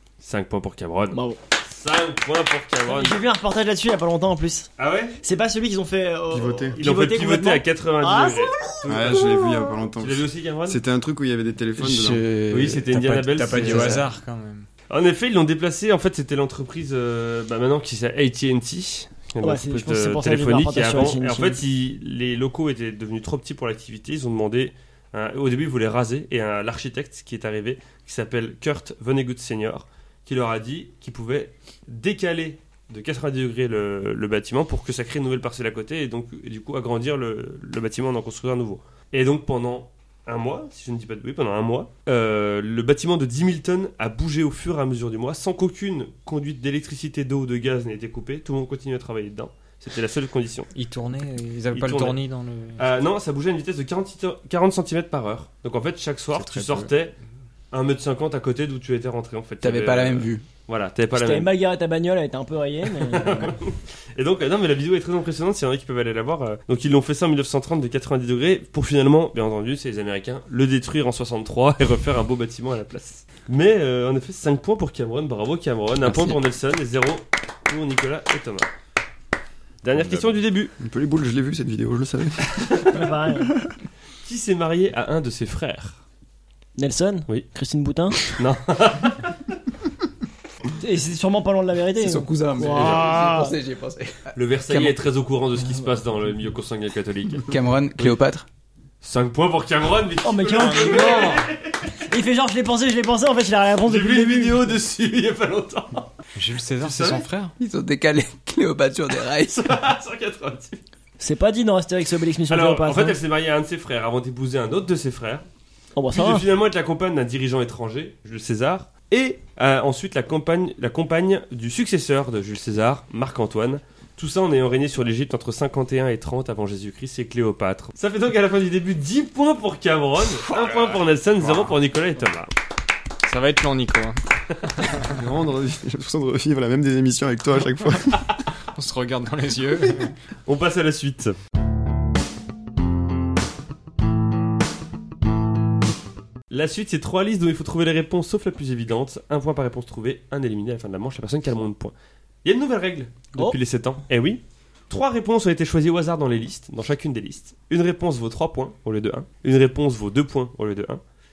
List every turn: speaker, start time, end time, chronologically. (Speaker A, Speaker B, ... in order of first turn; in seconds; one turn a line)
Speaker A: 0.2-3.2
Speaker B: 1.1-1.4
Speaker B: 2.9-4.7
Speaker A: 4.8-5.2
Speaker B: 5.2-9.8
Speaker C: 6.3-6.8
Speaker A: 6.8-9.3
Speaker C: 8.9-12.3
Speaker A: 10.0-10.8
Speaker D: 11.8-14.0
Speaker A: 12.5-14.0
Speaker E: 12.9-14.7
Speaker A: 14.9-50.7
Speaker B: 19.4-21.6
Speaker E: 50.7-52.8
Speaker A: 51.7-52.2
Speaker A: 52.8-57.1
Speaker E: 56.3-56.9
Speaker A: 57.7-61.5
Speaker D: 59.6-60.4
Speaker B: 61.1-63.5
Speaker A: 62.9-78.7
Speaker E: 76.0-76.4
Speaker A: 79.8-80.7
Speaker C: 79.9-83.0
Speaker A: 82.6-82.9
Speaker B: 82.9-83.5
Speaker A: 84.2-86.0
Speaker B: 86.8-88.3
Speaker A: 88.2-89.3
Speaker B: 90.8-93.5
Speaker D: 92.0-94.9
Speaker A: 92.7-93.1
Speaker A: 94.3-98.1
Speaker D: 97.4-98.5
Speaker A: 99.0-101.8
Speaker B: 100.2-104.7
Speaker E: 100.9-101.3
Speaker A: 103.8-106.1
Speaker E: 106.3-107.5
Speaker A: 106.8-107.2
Speaker D: 107.6-109.6
Speaker A: 109.3-110.8
Speaker B: 111.2-113.2
Speaker A: 112.5-115.4
Speaker B: 116.0-116.5
Speaker A: 116.1-132.5
Speaker E: 130.3-131.0
Speaker E: 133.2-134.2
Speaker E: 134.8-135.1
Speaker C: 134.9-138.4
Speaker E: 138.7-140.1
Speaker A: 140.5-141.3
Speaker A: 146.5-161.0